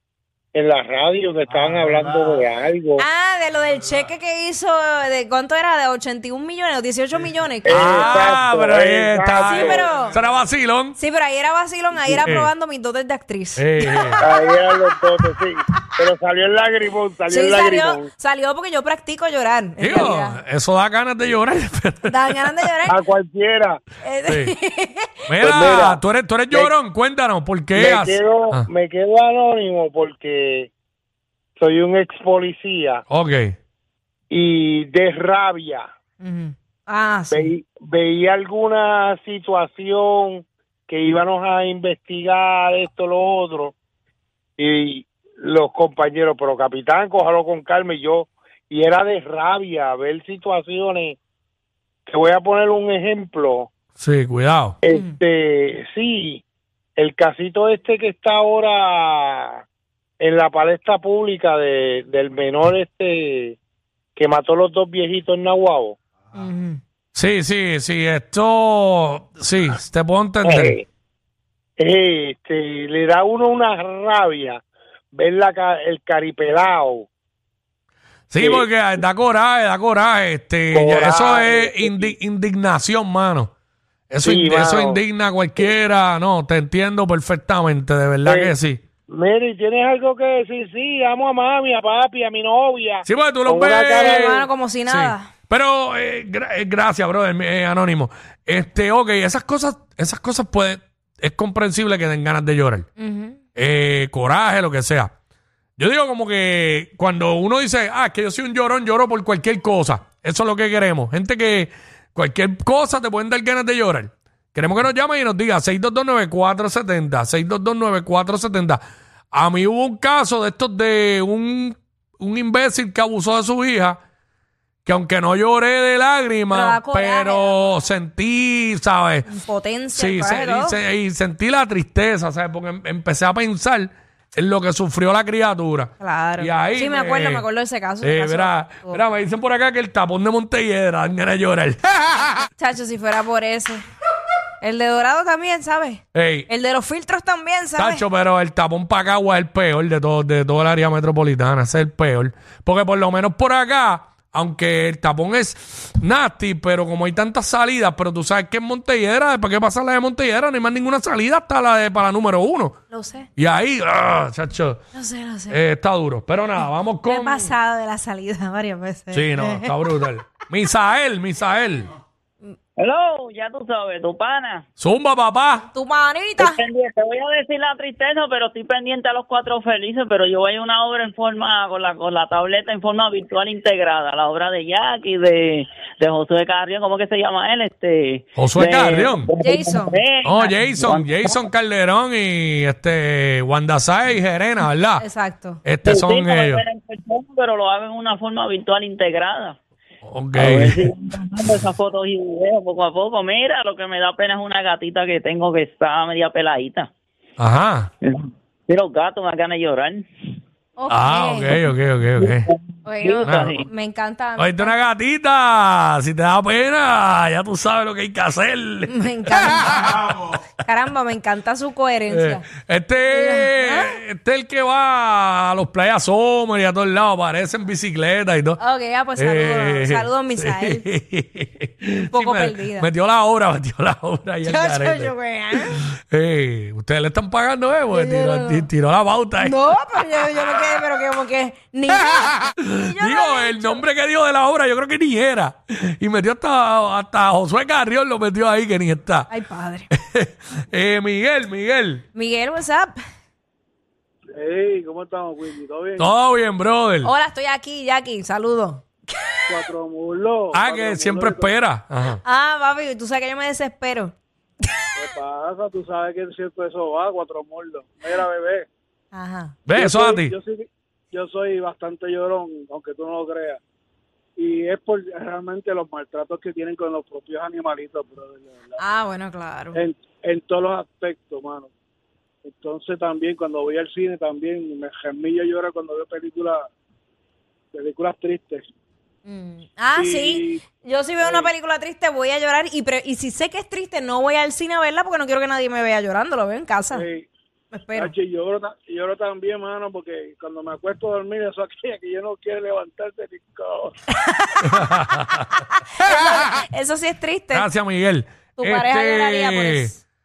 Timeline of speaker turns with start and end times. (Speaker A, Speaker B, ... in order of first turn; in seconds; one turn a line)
Speaker A: 0.5-3.0
Speaker B: 3.0-8.4
Speaker A: 7.7-9.9
Speaker C: 7.7-11.0
Speaker B: 9.4-10.2
Speaker B: 11.0-14.5
Speaker C: 12.2-12.5
Speaker C: 13.6-14.2
Speaker A: 14.2-18.1
Speaker B: 17.3-20.4
Speaker C: 19.8-22.4
Speaker B: 22.1-23.0
Speaker A: 22.9-23.8
Speaker B: 24.0-25.1
Speaker C: 24.3-24.5
Speaker C: 25.3-28.7
Speaker A: 25.4-26.7
Speaker A: 27.8-30.7
Speaker A: 31.6-33.0
Speaker C: 33.1-33.6
Speaker A: 34.3-35.9
Speaker B: 36.2-37.5
Speaker A: 37.3-43.7
Speaker A: 44.6-51.2
Speaker A: 52.1-53.7
Speaker C: 54.0-54.8
Speaker A: 54.8-56.4
Speaker B: 54.9-55.2
Speaker A: 57.0-59.6
Speaker A: 60.2-63.6
Speaker A: 64.2-66.0
Speaker B: 66.3-66.8
Speaker C: 67.1-70.8
Speaker A: 70.4-70.8
Speaker A: 71.8-74.6
Speaker A: 75.1-77.1
Speaker C: 78.3-83.5
Speaker A: 78.4-78.7
Speaker A: 80.7-82.1
Speaker C: 84.1-88.8
Speaker A: 84.2-85.0
Speaker A: 88.2-88.5
Speaker A: 89.1-94.5
Speaker C: 93.0-94.3
Speaker B: 94.0-95.3
Speaker C: 94.9-102.9
Speaker B: 103.0-103.4
Speaker C: 103.6-105.1
Speaker C: 105.8-118.8
Speaker C: 119.3-124.0
Speaker C: 124.8-129.3
Speaker B: 126.5-127.8
Speaker B: 129.2-130.8
Speaker C: 129.9-137.4
Speaker B: 136.0-139.0
Speaker C: 138.0-142.3
Speaker B: 142.6-143.8
Speaker B: 144.6-148.0
Speaker C: 146.1-146.5
Speaker C: 147.8-162.8
Speaker B: 162.9-163.3
Speaker C: 163.4-164.8
Speaker B: 164.9-165.6
Speaker C: 165.5-167.5
Speaker B: 167.1-169.8
Speaker C: 169.1-171.9
Speaker D: 172.8-174.6
Speaker C: 174.8-175.7
Speaker B: 175.7-176.6
Speaker D: 176.4-191.4
Speaker C: 188.4-189.3
Speaker B: 189.4-190.0
Speaker C: 190.2-195.1
Speaker B: 195.0-195.6
Speaker C: 195.6-196.6
Speaker D: 195.9-199.6
Speaker C: 200.0-200.9
Speaker D: 200.4-206.9
Speaker C: 207.4-207.9
Speaker D: 208.0-210.1
Speaker B: 210.8-211.6
Speaker C: 210.9-212.5
Speaker D: 212.2-213.7
Speaker B: 212.8-214.8
Speaker C: 213.2-213.7
Speaker C: 214.4-219.8
Speaker B: 218.9-222.4
Speaker C: 222.1-228.6
Speaker B: 223.0-224.0
Speaker B: 228.6-230.8
Speaker C: 229.2-235.1
Speaker B: 232.1-232.9
Speaker B: 234.4-235.8
Speaker C: 235.8-239.7
Speaker B: 237.9-238.7
Speaker B: 239.4-243.8
Speaker C: 242.6-249.3
Speaker B: 249.3-249.9
Speaker C: 249.9-252.0
Speaker B: 252.1-253.0
Speaker E: 254.3-256.1
Speaker C: 256.0-257.1
Speaker B: 257.0-258.9
Speaker E: 259.5-261.6
Speaker C: 260.5-262.2
Speaker B: 262.2-264.1
Speaker E: 264.9-268.7
Speaker B: 269.1-269.6
Speaker C: 269.7-270.3
Speaker E: 269.7-273.6
Speaker E: 274.4-278.8
Speaker B: 278.8-279.8
Speaker E: 279.7-281.7
Speaker E: 282.4-286.7
Speaker E: 287.7-288.6
Speaker B: 289.3-297.1
Speaker E: 289.9-290.6
Speaker E: 291.2-291.5
Speaker E: 296.9-297.3
Speaker B: 297.7-298.1
Speaker E: 297.9-303.9
Speaker B: 304.1-304.9
Speaker C: 304.7-305.4
Speaker B: 305.6-307.7
Speaker C: 307.5-309.9
Speaker B: 308.6-310.0